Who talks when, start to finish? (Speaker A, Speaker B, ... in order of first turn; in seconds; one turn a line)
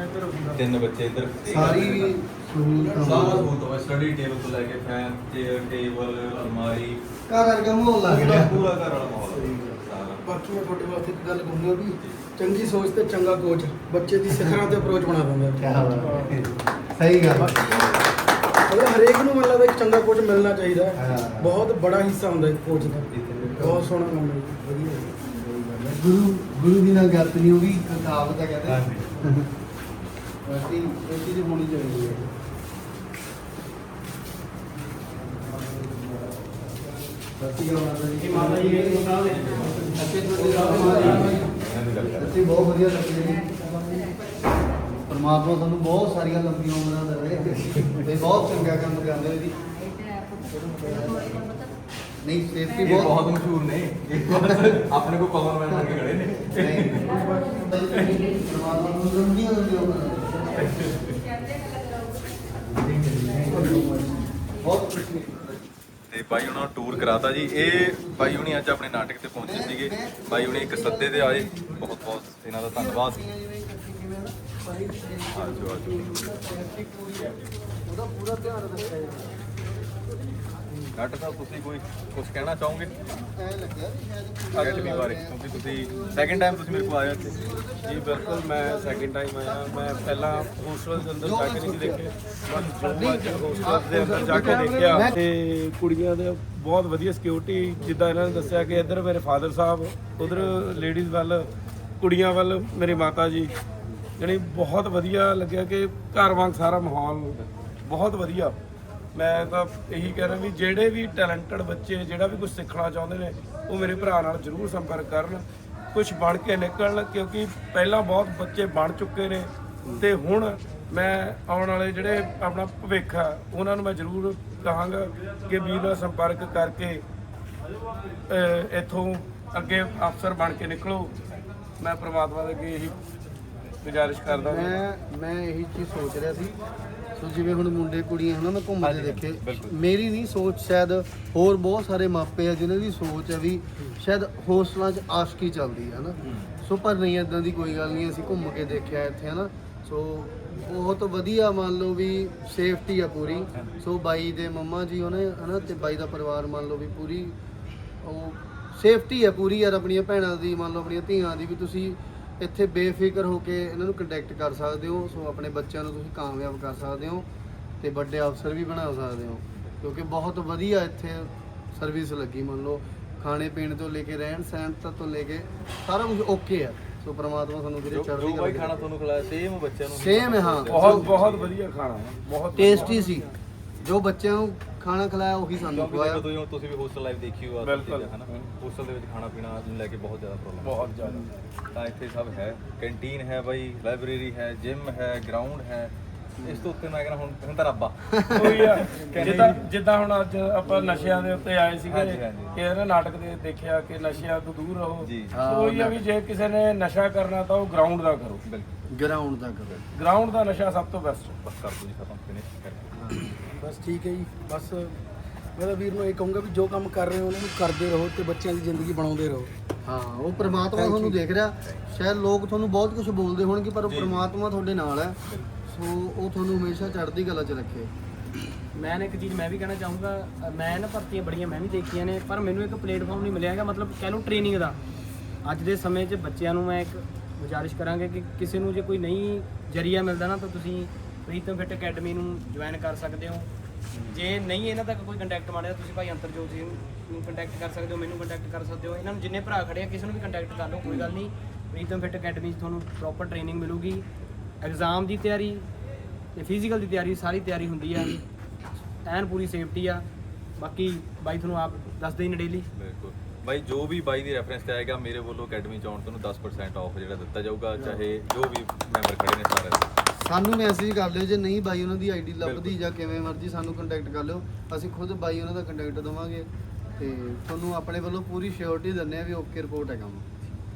Speaker A: 0.5-2.1
Speaker B: 1.5-3.5
Speaker C: 2.8-3.3
Speaker A: 3.0-7.0
Speaker B: 7.3-8.7
Speaker A: 8.0-10.3
Speaker B: 9.3-9.8
Speaker C: 10.2-16.4
Speaker A: 12.0-12.2
Speaker B: 14.3-14.6
Speaker B: 15.6-17.6
Speaker C: 17.3-17.9
Speaker A: 17.6-18.0
Speaker C: 18.7-25.1
Speaker B: 20.9-21.5
Speaker A: 22.8-23.8
Speaker B: 25.2-29.5
Speaker A: 28.6-29.1
Speaker B: 30.4-32.2
Speaker B: 37.4-39.1
Speaker D: 38.1-41.4
Speaker A: 39.2-40.1
Speaker B: 39.9-41.5
Speaker C: 40.1-40.9
Speaker A: 40.7-42.3
Speaker B: 42.1-44.1
Speaker B: 45.0-49.6
Speaker A: 47.7-48.0
Speaker B: 50.5-51.5
Speaker B: 52.2-53.3
Speaker A: 52.8-57.1
Speaker B: 54.2-54.7
Speaker B: 55.7-60.6
Speaker A: 57.9-58.2
Speaker A: 60.6-61.1
Speaker B: 62.9-65.5
Speaker C: 63.5-63.8
Speaker A: 66.1-73.2
Speaker B: 69.4-72.0
Speaker B: 72.7-79.3
Speaker A: 75.3-76.3
Speaker A: 80.9-83.0
Speaker B: 83.1-90.5
Speaker E: 84.5-84.9
Speaker A: 84.5-87.4
Speaker E: 87.8-101.5
Speaker B: 91.2-92.0
Speaker B: 92.9-95.2
Speaker E: 102.0-103.5
Speaker E: 104.2-108.5
Speaker E: 109.1-127.0
Speaker E: 128.3-131.2
Speaker E: 131.8-133.0
Speaker E: 133.8-134.8
Speaker B: 134.4-136.6
Speaker B: 137.2-157.3
Speaker A: 138.8-139.8
Speaker A: 146.2-146.5
Speaker B: 158.0-167.2
Speaker B: 167.8-178.8
Speaker A: 177.8-181.5
Speaker B: 179.9-181.1
Speaker E: 180.7-182.9
Speaker B: 182.6-183.2
Speaker D: 182.6-183.2
Speaker B: 183.8-186.2
Speaker A: 185.7-191.0
Speaker E: 187.6-188.4
Speaker E: 190.6-191.3
Speaker A: 191.7-199.6
Speaker B: 196.4-196.7
Speaker B: 198.1-199.5
Speaker E: 198.3-208.4
Speaker A: 201.8-202.6
Speaker A: 205.0-205.4
Speaker B: 205.3-206.0
Speaker B: 208.9-209.9
Speaker E: 209.9-211.3
Speaker A: 211.4-212.9
Speaker B: 212.9-213.4
Speaker C: 213.5-215.0
Speaker C: 215.6-219.5
Speaker B: 219.8-225.2
Speaker C: 220.7-221.2
Speaker A: 223.8-224.3
Speaker B: 225.7-227.9
Speaker D: 228.7-234.8
Speaker D: 235.4-243.5
Speaker B: 243.9-244.2
Speaker D: 244.1-254.0
Speaker B: 250.8-251.1
Speaker D: 254.6-255.6
Speaker D: 256.3-258.2
Speaker D: 259.0-260.0
Speaker D: 260.6-262.7
Speaker A: 262.7-269.9
Speaker B: 270.2-280.2
Speaker A: 272.4-272.8